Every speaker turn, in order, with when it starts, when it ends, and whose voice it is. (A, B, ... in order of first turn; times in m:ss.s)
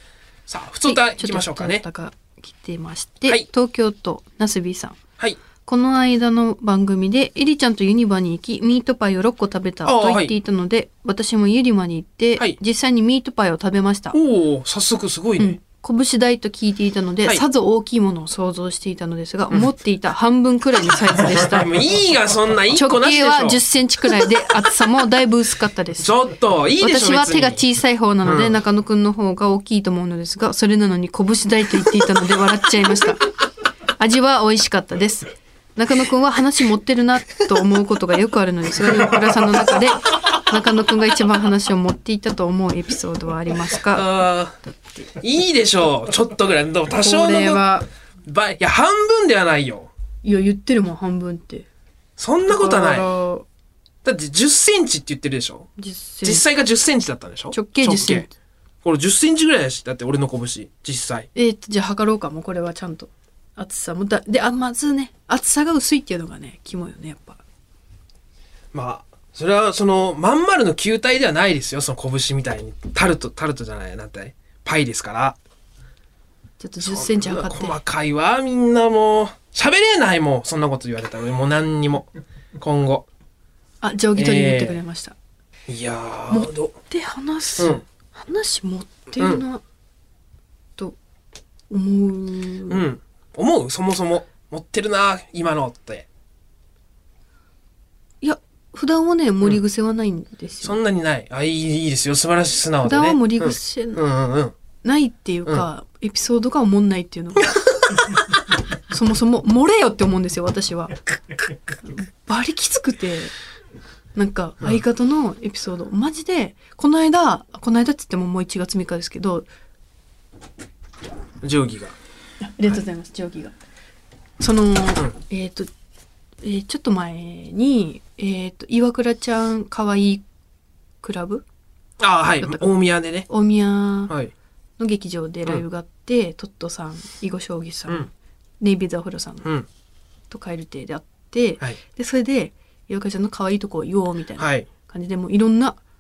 0:00.5-0:01.8 A
0:00.8-0:05.0 B
0:05.6-0:14.2 B
0:09.8-0:10.3 A
0:14.1-0:15.6 A
0:15.4-0:21.8 B
0:21.3-0:24.2 A
0:22.7-0:26.1 B
0:26.0-0:27.6 A
0:26.8-0:33.2 B
0:28.2-0:28.5 A
0:34.0-0:44.1 B
0:39.5-0:40.4 A
0:43.8-0:47.7 A
0:46.9-0:47.9 B
0:48.2-0:49.9 A
0:50.2-0:51.7 B
0:52.2-0:53.1 A
0:52.5-0:53.5 B
0:54.0-0:55.7 A
0:55.8-0:56.4 B
0:56.2-0:58.3 A
0:57.5-0:58.3 B
0:58.8-1:01.3 A
1:01.4-1:07.4 B
1:08.7-1:15.4 A
1:16.6-1:17.8 B
1:16.8-1:23.1 A
1:23.8-1:25.2 B
1:24.2-1:24.8 A
1:25.7-1:26.8 A
1:26.3-1:29.6 B
1:27.6-1:27.8 A
1:29.2-1:29.4 A
1:31.7-1:32.8 B
1:32.7-1:36.1 A
1:38.2-1:40.8 B
1:40.6-1:44.6 A
1:42.8-1:44.0 B
1:44.8-1:47.5 B
1:47.4-1:48.2 A
1:48.9-1:51.0 B
1:51.8-1:53.3 B
1:54.2-1:59.5 B
2:01.4-2:02.0 A
2:02.4-2:03.6 B
2:04.4-2:05.7 B
2:06.4-2:10.2 B
2:11.0-2:11.4 B
2:12.0-2:13.3 A
2:12.4-2:12.7 B
2:13.3-2:14.1 B
2:14.1-2:14.3 A
2:14.8-2:18.1 B
2:18.6-2:19.5 B
2:19.4-2:19.7 A
2:20.3-2:25.8 B
2:24.4-2:24.7 A